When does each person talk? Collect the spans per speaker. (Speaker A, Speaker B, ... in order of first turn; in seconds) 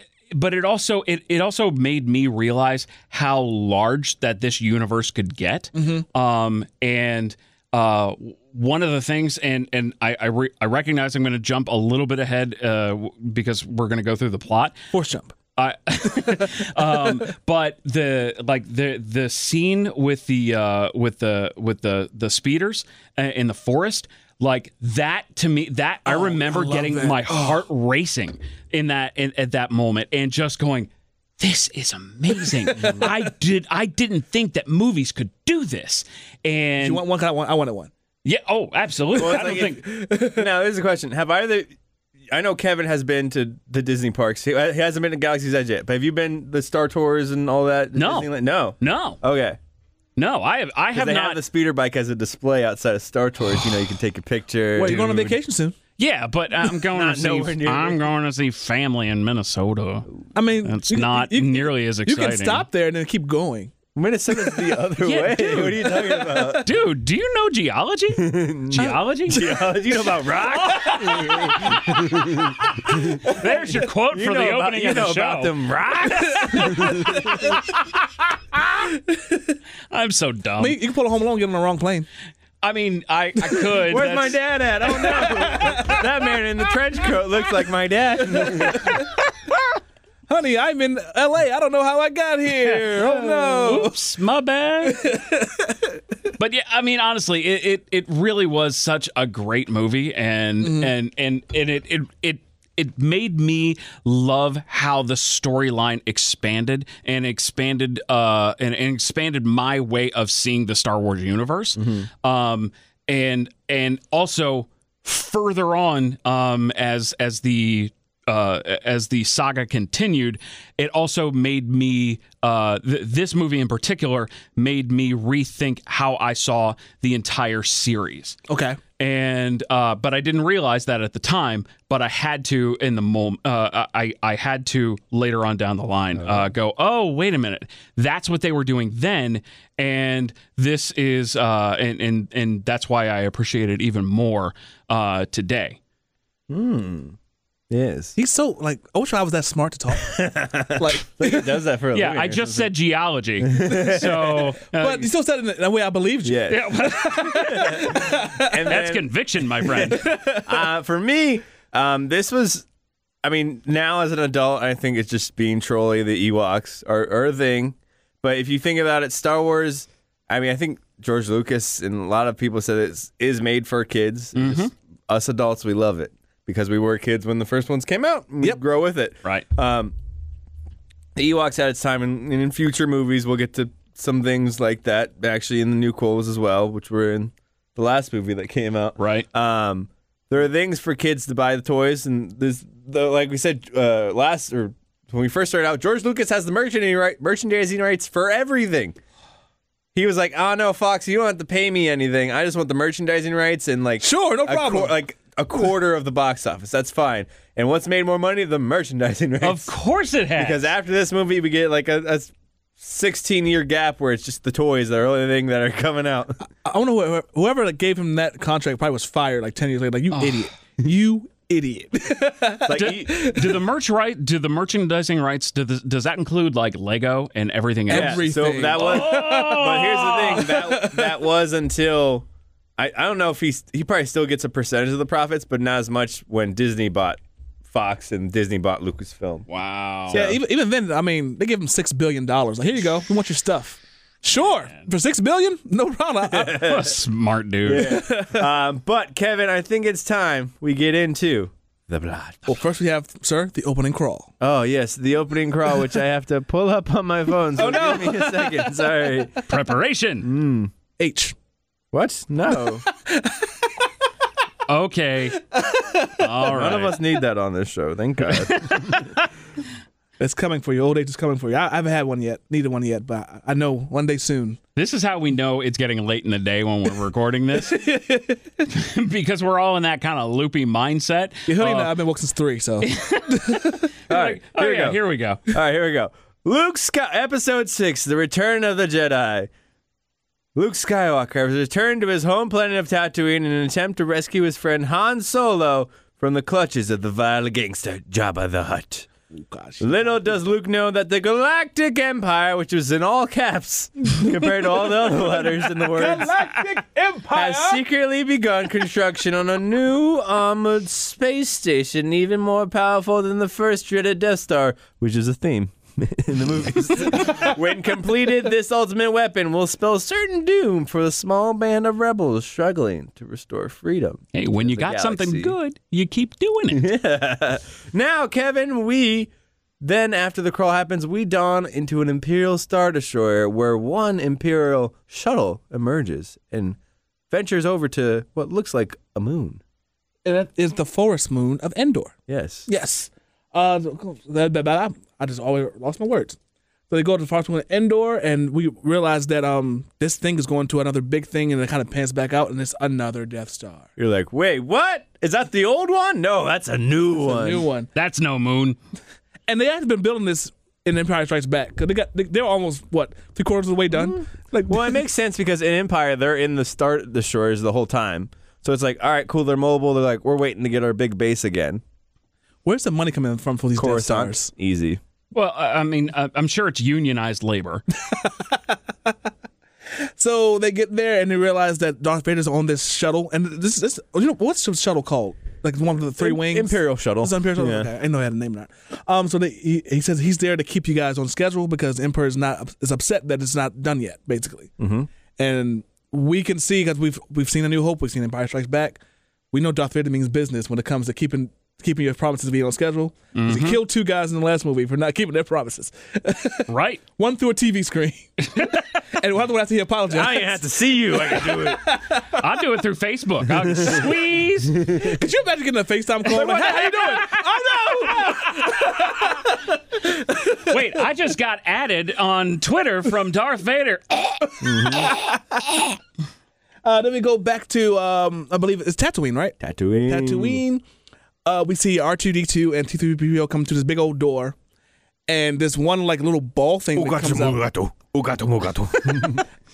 Speaker A: 0.3-14.8, 15.6-37.0, 38.2-39.8, 48.0-49.2, 50.2-51.4, 54.8-55.4, 56.0-60.1, 60.6-62.7, 65.0-69.5, 70.6-72.0, 73.2-75.6, 79.9-80.8, 82.6-84.4, 84.9-85.3, 92.6-95.0, 96.4-128.4, 129.0-145.8, 151.9-155.1, 156.5-157.6, 158.7-160.1, 174.4-174.7, 189.0-189.3, 209.4-210.7, 220.1-220.5, 222.7-230.5, 239.5-240.3, 246.6-248.1, 259.5-260.3, 264.7-265.4, 266.2-267.0, 268.4-269.0, 274.8-277.8, 278.7-282.0, 282.8-285.4, 324.3-326.9, 357.9-358.8, 375.3-377.8, 403.4-403.8, 406.7-407.0, 412.4-415.0, 416.3-418.7, 420.6-424.4
Speaker B: 5.8-6.0, 14.9-15.3, 16.1-17.2, 26.1-27.6, 32.6-33.1, 36.8-37.9, 39.1-40.5, 54.8-55.8, 60.4-63.7, 65.8-66.7, 68.8-69.6, 76.3-77.5, 78.9-79.6, 80.6-82.1, 84.9-86.1, 88.3-89.2, 90.3-94.0, 94.9-95.8, 100.6-100.9, 128.5-128.8, 148.2-150.2, 150.7-151.6, 154.8-158.8, 159.7-160.6, 204.0-204.9, 216.6-223.6, 227.9-231.2, 240.1-246.6, 247.7-248.5, 252.5-254.3, 257.6-259.2, 261.0-261.4, 262.6-263.5, 265.5-266.3, 270.2-274.6, 277.7-278.4, 281.5-283.9, 299.3-300.3, 304.6-307.8, 340.2-342.1, 342.7-346.4, 346.9-353.9, 357.2-357.9, 359.5-365.0, 372.6-374.5, 380.2-394.7, 395.4-399.0, 399.5-412.4, 415.0-420.8, 424.5-425.8, 426.9-430.8, 431.4-434.6, 435.3-437.6
Speaker C: 39.1-41.7, 42.3-49.6, 50.9-55.3, 56.9-58.0, 64.0-66.7, 68.2-77.6, 83.8-89.0, 93.0-93.9, 111.8-112.1, 136.2-136.5, 146.5-147.2, 147.7-148.2, 150.1-152.7, 153.4-154.6, 156.2-159.1, 160.5-162.7, 163.2-179.9, 181.2-199.0, 199.9-209.7, 210.3-216.4, 222.7-223.3, 227.9-239.5, 240.1-240.4, 246.3-246.9, 247.7-252.6, 254.4-259.4, 260.2-260.7, 261.9-262.9, 266.5-269.0, 284.1-289.5, 290.6-299.1, 299.8-306.3, 307.3-325.6, 326.7-329.3, 329.8-336.8, 337.3-339.6, 342.3-342.7, 354.0-357.7, 363.9-371.8, 373.8-375.0, 386.2-387.9, 394.8-395.1, 410.1-411.8, 414.8-415.1, 416.3-417.2, 424.6-425.2, 429.6-430.6, 436.9-439.4